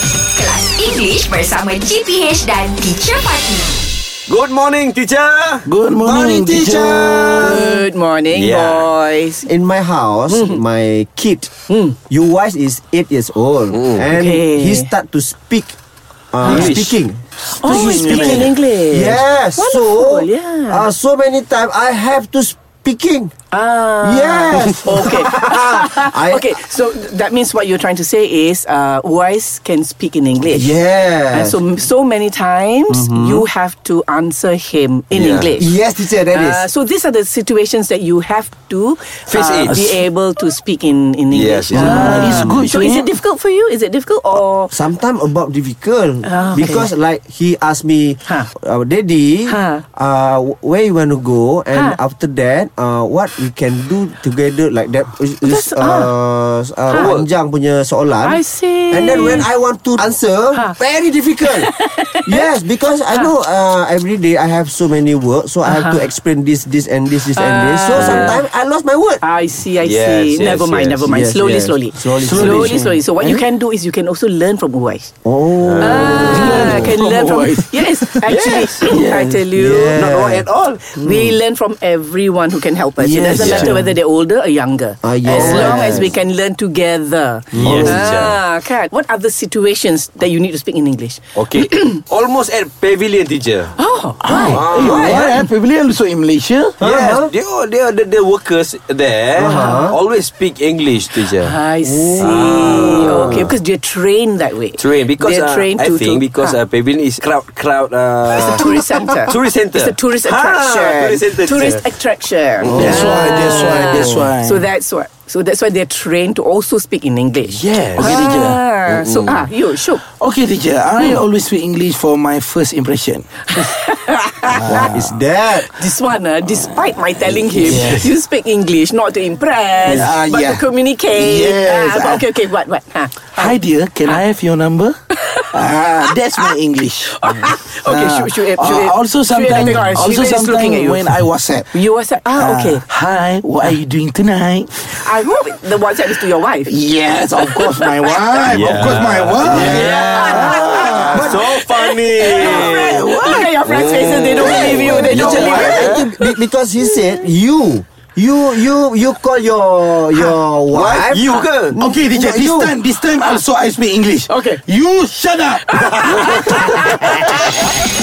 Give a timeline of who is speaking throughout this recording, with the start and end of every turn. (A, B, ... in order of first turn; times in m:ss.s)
0:00.3-0:03.8 A
0:04.3-0:05.7 B
0:05.6-0:07.2 C
0:06.0-0:07.8 D
0:07.1-0:07.6 B
0:07.4-0:09.5 E
0:08.3-0:08.9 B
0:09.5-0:11.5 D
0:10.3-0:10.6 E
0:11.7-0:12.0 E
0:12.1-0:15.7 D
0:13.7-0:14.0 B
0:14.1-0:14.9 E
0:16.3-0:23.3 D
0:16.4-0:17.0 B
0:16.5-0:16.7 E
0:17.5-0:20.9 E
0:17.6-0:18.5 C
0:23.5-0:30.8 E
0:24.0-0:26.5 D
0:30.5-0:31.6 D
0:31.3-0:35.8 E
0:32.9-0:33.4 D
0:35.1-0:35.5 B
0:35.6-0:36.7 D
0:36.3-0:44.7 E
0:39.3-0:40.0 B
0:41.3-0:42.5 B
0:41.7-0:43.1 C
0:44.7-1:01.7 D
0:46.2-0:46.9 E
0:49.5-0:49.8 E
0:55.4-0:56.1 E
0:56.9-0:57.3 B
0:58.2-0:59.5 E
1:01.6-1:02.2 E
1:02.2-1:09.2 D
1:05.6-1:06.1 E
1:07.4-1:08.4 E
1:07.9-1:08.4 B
1:09.2-1:15.1 E
1:09.8-1:11.1 B
1:11.0-1:12.8 D
1:12.2-1:13.4 C
1:15.2-1:16.6 D
1:15.6-1:16.8 B
1:15.8-1:20.1 E
1:16.2-1:19.4 C
1:18.3-1:18.8 B
1:19.5-1:20.5 D
1:20.0-1:21.3 B
1:21.0-1:32.0 E
1:23.0-1:23.9 D
1:23.3-1:23.7 B
1:25.0-1:26.1 D
1:25.3-1:25.9 B
1:27.5-1:28.1 D
1:27.5-1:28.4 B
1:31.4-1:33.7 B
1:33.8-1:35.3 E
1:34.2-1:36.8 C
1:34.5-1:35.4 B
1:36.8-1:41.5 B
1:36.8-1:37.3 D
1:39.4-1:40.0 D
1:39.4-1:39.9 E
1:41.2-1:46.6 E
1:41.8-1:43.2 D
1:42.2-1:43.6 B
1:44.8-1:51.8 B
1:48.3-2:00.0 E
1:52.6-1:53.3 B
1:52.7-1:54.7 C
1:57.6-1:58.6 C
1:58.9-1:59.4 B
2:00.0-2:03.5 C
2:03.5-2:04.9 E
2:04.5-2:05.1 C
2:04.7-2:05.7 D
2:05.7-2:13.6 E
2:07.6-2:08.1 C
2:09.8-2:12.2 C
2:13.3-2:21.7 C
2:15.2-2:15.5 E
2:17.2-2:21.1 E
2:21.7-2:22.9 E
2:22.4-2:24.9 C
2:24.8-2:26.8 E
2:26.7-2:31.4 C
2:28.5-2:33.0 B
2:29.5-2:29.9 D
2:29.7-2:36.0 E
2:31.1-2:31.4 D
2:32.3-2:33.5 C
2:33.6-2:36.1 B
2:34.4-2:42.7 D
2:35.1-2:35.8 C
2:40.7-2:41.8 B
2:41.8-2:46.4 C
2:44.3-2:44.6 E
2:45.7-2:47.6 E
2:46.3-2:46.9 B